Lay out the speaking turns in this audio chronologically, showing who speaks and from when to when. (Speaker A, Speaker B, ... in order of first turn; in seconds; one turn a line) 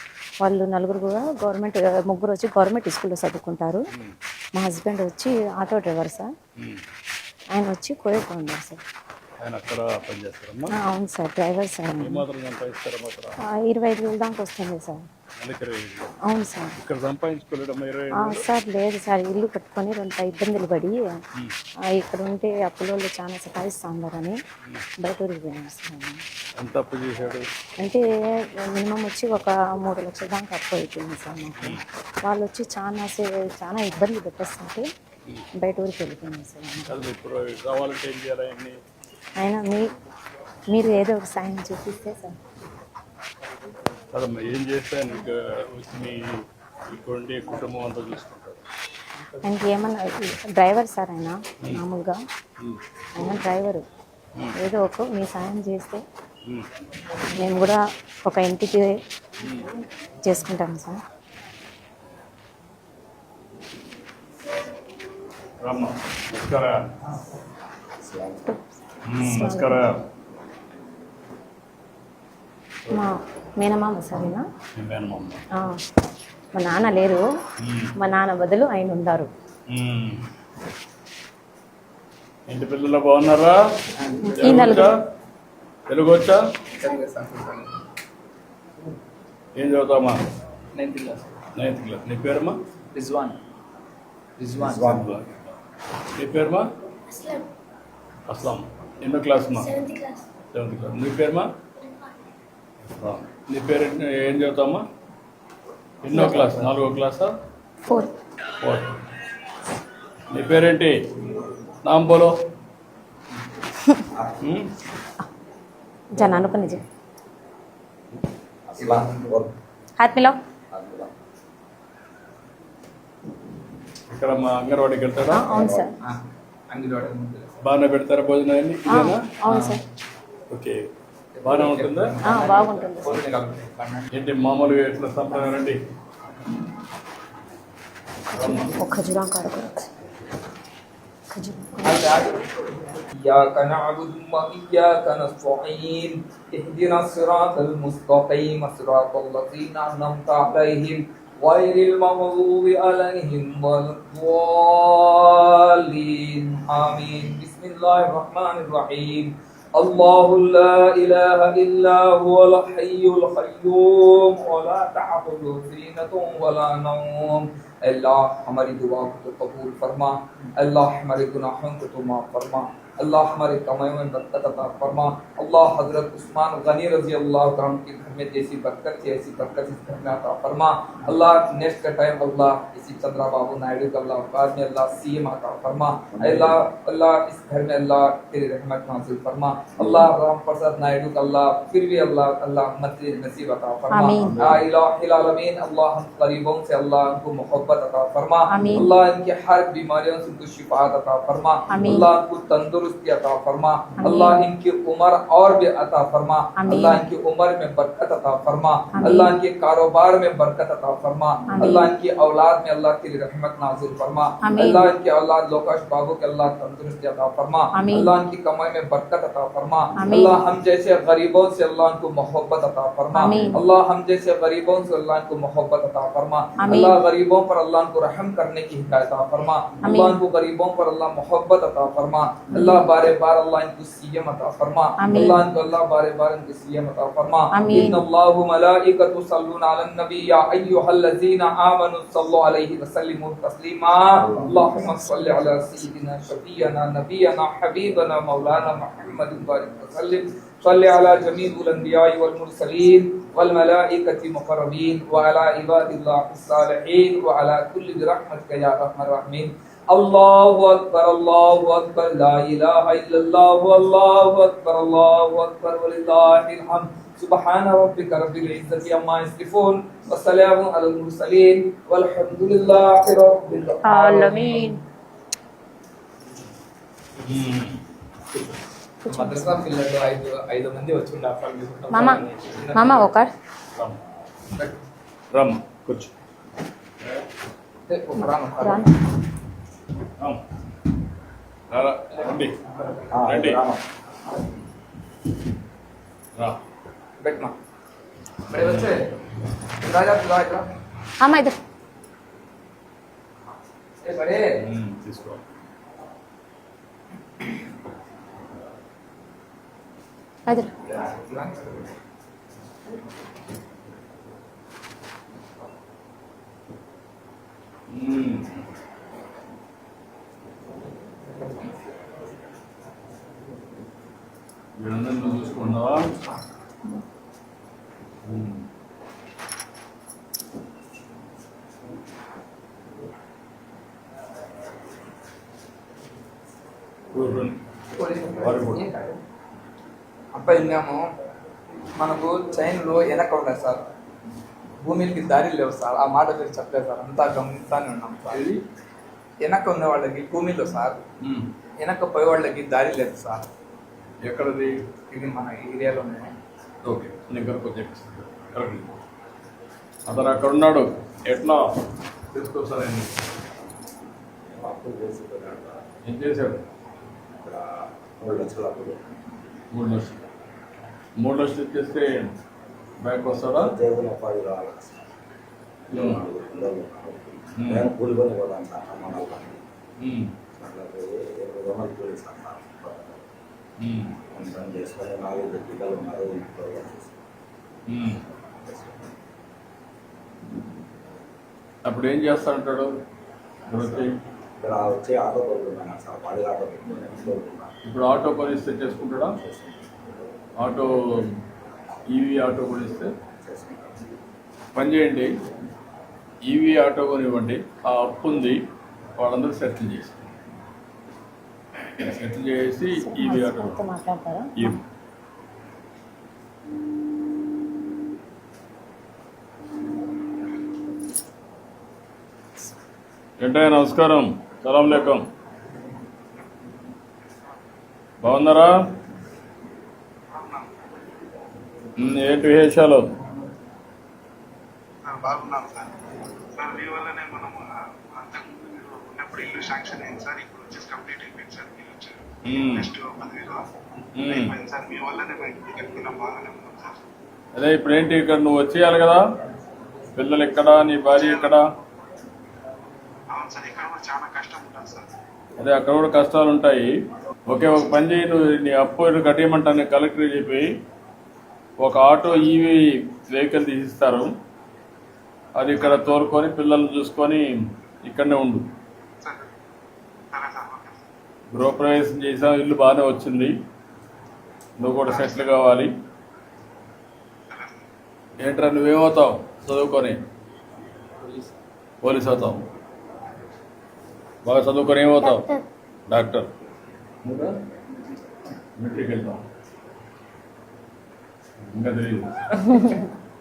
Speaker A: 0.4-3.9
Speaker A: 4.5-6.3
Speaker B: 6.6-6.8
Speaker A: 7.5-8.8
Speaker B: 9.4-10.8
Speaker A: 10.7-12.2
Speaker B: 12.0-13.4
Speaker A: 13.5-15.1
Speaker B: 15.4-16.1
Speaker A: 16.2-16.8
Speaker B: 16.8-18.4
Speaker A: 18.1-21.2
Speaker A: 21.9-24.4
Speaker A: 25.0-26.2
Speaker B: 26.6-27.5
Speaker A: 27.8-28.0
Speaker A: 28.6-34.9
Speaker B: 31.6-31.8
Speaker A: 35.5-36.9
Speaker B: 36.9-38.8
Speaker A: 39.4-39.9
Speaker A: 40.7-42.4
Speaker B: 44.1-46.2
Speaker B: 46.9-48.6
Speaker A: 49.4-52.2
Speaker A: 53.1-53.8
Speaker A: 54.6-56.0
Speaker A: 57.4-59.0
Speaker A: 60.2-61.0
Speaker B: 65.6-66.8
Speaker C: 68.0-68.5
Speaker B: 69.0-70.0
Speaker A: 69.2-69.8
Speaker A: 72.9-74.5
Speaker B: 74.8-75.4
Speaker A: 76.5-77.2
Speaker B: 77.6-77.9
Speaker A: 78.0-79.3
Speaker B: 79.7-80.2
Speaker B: 82.5-83.6
Speaker D: 84.0-84.7
Speaker A: 84.3-84.9
Speaker B: 84.4-85.0
Speaker B: 85.9-86.4
Speaker D: 86.8-87.7
Speaker B: 89.5-90.2
Speaker D: 90.8-91.3
Speaker B: 91.5-92.6
Speaker D: 92.9-93.4
Speaker D: 94.4-95.1
Speaker C: 94.6-95.1
Speaker B: 94.7-95.5
Speaker B: 96.1-96.7
Speaker E: 97.1-97.5
Speaker B: 98.3-99.7
Speaker E: 99.5-100.3
Speaker B: 100.5-101.5
Speaker E: 101.8-102.1
Speaker B: 103.0-104.8
Speaker B: 106.0-107.3
Speaker A: 106.1-106.5
Speaker B: 108.6-109.0
Speaker B: 110.3-111.0
Speaker B: 111.8-112.3
Speaker C: 114.1-114.4
Speaker B: 114.4-114.7
Speaker A: 116.1-116.8
Speaker C: 118.7-119.5
Speaker D: 118.8-119.4
Speaker A: 120.0-120.4
Speaker C: 120.7-121.1
Speaker B: 124.1-125.5
Speaker A: 125.3-125.9
Speaker C: 125.5-125.9
Speaker D: 126.0-127.5
Speaker B: 127.6-129.2
Speaker A: 128.9-129.8
Speaker D: 129.5-129.8
Speaker B: 130.5-130.8
Speaker D: 131.3-134.1
Speaker B: 131.4-132.2
Speaker A: 132.2-133.2
Speaker B: 134.1-135.8
Speaker B: 138.3-138.7
Speaker A: 138.3-139.9
Speaker A: 141.3-142.2
Speaker D: 141.8-274.8
Speaker C: 186.1-186.6
Speaker C: 189.8-190.1
Speaker A: 193.9-194.4
Speaker C: 194.3-194.6
Speaker A: 198.5-198.9
Speaker A: 201.7-202.1
Speaker A: 204.0-204.4
Speaker A: 206.6-207.0
Speaker A: 208.9-209.3
Speaker A: 211.5-211.9
Speaker A: 214.4-214.9
Speaker A: 217.7-218.1
Speaker A: 219.9-220.4
Speaker A: 223.1-223.6
Speaker A: 226.6-227.0
Speaker A: 229.8-230.2
Speaker A: 232.5-232.8
Speaker A: 235.0-235.4
Speaker A: 237.5-238.0
Speaker C: 244.2-244.7
Speaker A: 244.5-245.1
Speaker A: 273.9-274.8
Speaker B: 277.2-277.8
Speaker A: 279.1-279.6
Speaker D: 279.1-283.1
Speaker A: 281.9-283.3
Speaker B: 285.3-286.1
Speaker D: 287.9-288.9
Speaker A: 288.6-288.9
Speaker B: 291.7-292.6
Speaker C: 293.1-293.8
Speaker B: 293.2-293.6
Speaker D: 297.2-297.6
Speaker B: 298.5-299.0
Speaker D: 298.5-299.1
Speaker D: 299.8-300.6
Speaker A: 301.2-301.6
Speaker D: 304.0-304.6
Speaker B: 304.6-305.4
Speaker D: 310.9-311.9
Speaker B: 317.9-318.6
Speaker B: 324.8-326.1
Speaker B: 328.2-328.6
Speaker B: 337.1-337.6
Speaker D: 338.0-339.2
Speaker B: 338.4-338.9
Speaker D: 340.4-341.0
Speaker D: 342.0-343.8
Speaker D: 344.8-348.4
Speaker B: 348.3-348.6
Speaker D: 349.4-351.0
Speaker B: 351.2-351.5
Speaker D: 351.8-353.4
Speaker B: 354.2-354.7
Speaker D: 355.1-356.3
Speaker B: 356.8-358.9
Speaker B: 360.1-361.7
Speaker B: 362.3-363.1
Speaker C: 364.5-365.8
Speaker B: 366.1-366.6
Speaker C: 367.4-369.1
Speaker B: 369.7-370.2
Speaker B: 371.2-372.3
Speaker B: 373.0-373.7
Speaker C: 373.6-375.1
Speaker C: 375.9-379.6
Speaker B: 375.9-376.2
Speaker B: 377.6-377.9
Speaker B: 380.0-380.3
Speaker C: 380.6-383.2
Speaker B: 383.8-384.1
Speaker C: 384.3-387.2
Speaker B: 387.9-388.2
Speaker C: 388.6-389.1
Speaker B: 391.9-392.9
Speaker B: 393.7-394.1
Speaker C: 393.7-394.1
Speaker C: 394.6-397.7
Speaker B: 397.9-399.4
Speaker C: 399.4-400.1
Speaker B: 400.6-401.3
Speaker B: 402.1-403.1
Speaker C: 403.4-404.1
Speaker B: 404.7-405.3
Speaker B: 406.4-408.6
Speaker B: 409.2-410.2
Speaker B: 412.0-413.8
Speaker A: 412.9-414.8
Speaker B: 423.4-425.2
Speaker B: 428.2-428.8
Speaker F: 430.3-430.7
Speaker B: 432.0-433.1
Speaker F: 435.1-435.9
Speaker F: 436.6-443.6
Speaker B: 442.4-442.9
Speaker B: 444.1-444.5
Speaker F: 444.2-446.9
Speaker B: 447.6-449.2
Speaker B: 450.1-451.6
Speaker F: 451.1-451.6
Speaker F: 453.3-455.1
Speaker B: 455.6-456.9
Speaker B: 457.5-460.7
Speaker B: 461.8-464.3
Speaker B: 465.6-467.4
Speaker F: 465.7-466.1
Speaker B: 468.1-468.6
Speaker F: 469.2-469.5
Speaker F: 470.3-471.0
Speaker B: 471.5-473.5
Speaker B: 474.8-475.9
Speaker F: 475.1-475.5
Speaker F: 477.5-477.8
Speaker B: 478.4-480.2
Speaker D: 481.2-481.5
Speaker B: 482.0-482.6
Speaker B: 484.4-485.5
Speaker E: 485.2-485.6
Speaker B: 486.1-486.5
Speaker B: 487.2-487.5
Speaker B: 488.8-489.4
Speaker B: 491.7-492.8
Speaker A: 492.7-493.1